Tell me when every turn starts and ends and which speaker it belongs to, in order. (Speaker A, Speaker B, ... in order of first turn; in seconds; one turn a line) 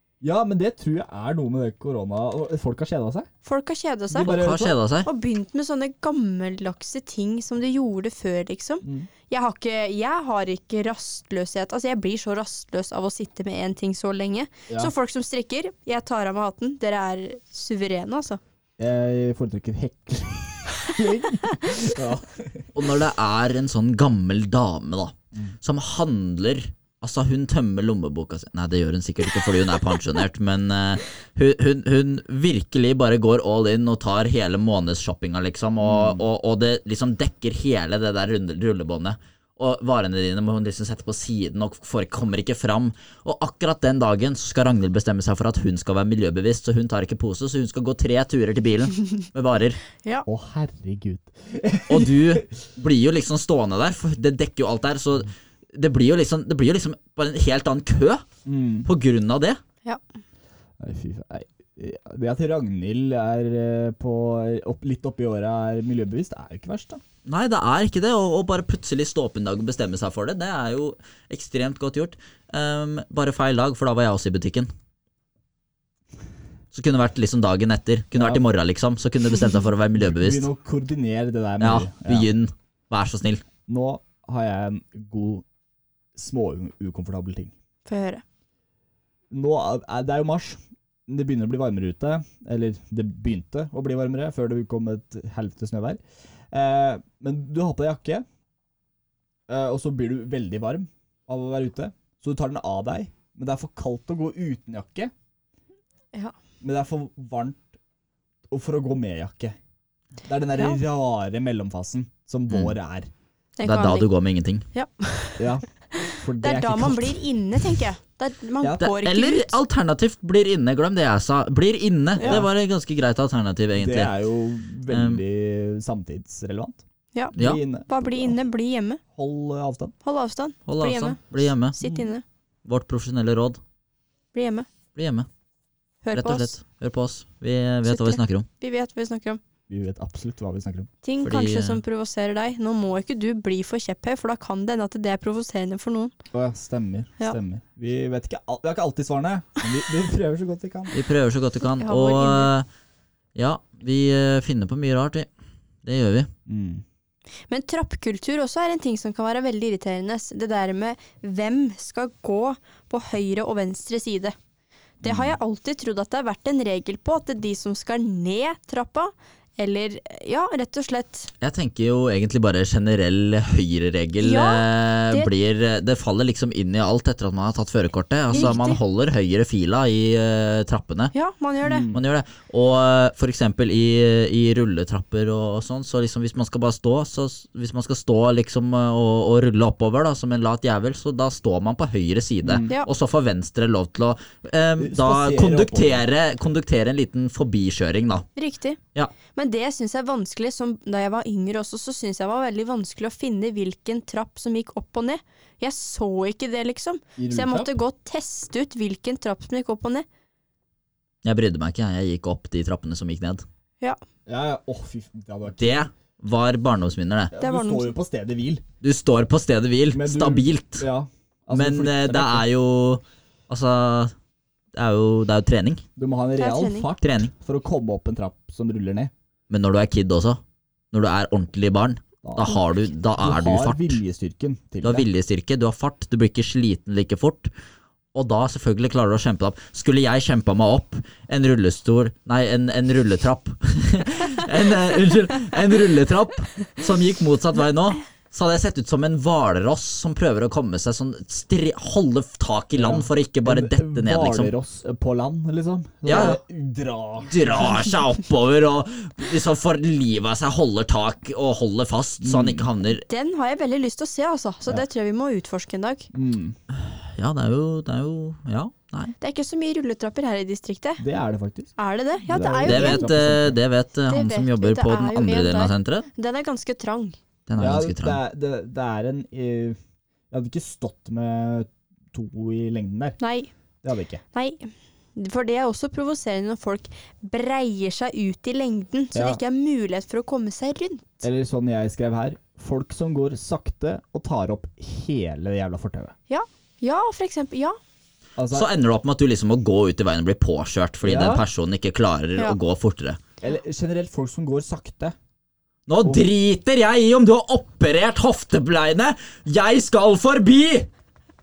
Speaker A: 0.2-3.3
Speaker B: 3.4-4.4
Speaker A: 4.1-4.8
Speaker C: 4.1-5.1
Speaker B: 5.0-18.4
Speaker A: 8.8-9.1
Speaker A: 18.8-22.8
Speaker C: 22.7-49.8
Speaker A: 35.8-36.2
Speaker A: 50.3-52.4
Speaker C: 51.9-58.2
Speaker A: 58.4-58.9
Speaker C: 58.9-59.6
Speaker A: 60.8-67.0
Speaker C: 67.2-74.7
Speaker C: 76.7-80.5
Speaker A: 78.1-78.4
Speaker A: 80.0-82.3
Speaker C: 81.6-83.4
Speaker A: 83.7-85.4
Speaker A: 86.1-87.5
Speaker B: 87.8-88.2
Speaker A: 89.3-96.0
Speaker A: 96.5-98.2
Speaker A: 99.5-105.1
Speaker A: 106.6-107.7
Speaker A: 108.5-109.6
Speaker A: 110.2-113.1
Speaker B: 113.6-114.1
Speaker C: 113.6-114.6
Speaker B: 114.7-119.6
Speaker A: 115.4-117.2
Speaker C: 118.8-124.1
Speaker A: 122.2-122.5
Speaker A: 123.8-126.8
Speaker C: 124.9-125.2
Speaker A: 127.3-128.4
Speaker C: 127.3-127.6
Speaker B: 127.9-129.0
Speaker A: 129.1-129.9
Speaker B: 130.0-132.2
Speaker C: 130.7-131.8
Speaker A: 131.8-132.1
Speaker C: 132.6-133.6
Speaker B: 134.3-134.7
Speaker C: 134.9-135.3
Speaker B: 136.0-136.6
Speaker C: 136.1-138.5
Speaker B: 137.8-139.4
Speaker A: 139.7-140.9
Speaker B: 141.0-146.1
Speaker C: 141.2-141.8
Speaker A: 146.3-150.9
Speaker C: 150.9-152.7
Speaker B: 151.7-152.5
Speaker C: 153.3-155.3
Speaker C: 155.8-156.3
Speaker A: 156.5-156.8
Speaker B: 157.5-164.3
Speaker A: 165.0-165.3
Speaker B: 165.0-171.3
Speaker C: 171.4-181.1
Speaker B: 174.2-175.3
Speaker B: 178.3-178.8
Speaker B: 181.1-181.9
Speaker A: 181.6-182.0
Speaker C: 181.9-198.3
Speaker A: 192.4-192.7
Speaker A: 194.8-196.1
Speaker B: 198.3-198.8
Speaker B: 199.3-210.1
Speaker A: 207.2-207.7
Speaker C: 211.2-213.4
Speaker A: 214.2-215.8
Speaker C: 215.6-217.3
Speaker A: 217.3-218.6
Speaker B: 217.4-217.9
Speaker C: 218.8-220.9
Speaker A: 219.9-222.4
Speaker C: 221.5-224.1
Speaker C: 224.7-225.8
Speaker A: 226.0-229.1
Speaker B: 226.4-226.9
Speaker C: 227.0-227.3
Speaker C: 229.5-230.4
Speaker C: 230.9-234.0
Speaker A: 232.2-232.6
Speaker A: 233.2-235.1
Speaker C: 234.8-237.5
Speaker C: 238.1-254.5
Speaker A: 252.8-257.9
Speaker C: 256.0-256.4
Speaker B: 256.1-256.4
Speaker C: 257.2-263.1
Speaker A: 262.2-262.7
Speaker B: 263.1-266.1
Speaker A: 266.1-266.6
Speaker C: 266.7-269.1
Speaker B: 269.2-271.0
Speaker A: 271.0-271.7
Speaker B: 271.8-273.1
Speaker A: 272.2-273.6
Speaker C: 272.6-276.1
Speaker B: 274.1-277.2
Speaker C: 277.5-278.2
Speaker A: 277.6-279.8
Speaker A: 280.3-283.2
Speaker B: 283.2-283.5
Speaker A: 283.8-284.2
Speaker B: 284.3-291.2
Speaker A: 289.1-289.4
Speaker A: 291.2-296.1
Speaker B: 296.3-297.8
Speaker A: 298.4-298.7
Speaker C: 298.5-303.2
Speaker A: 301.0-301.4
Speaker A: 303.4-305.1
Speaker C: 305.9-310.9
Speaker A: 306.0-306.3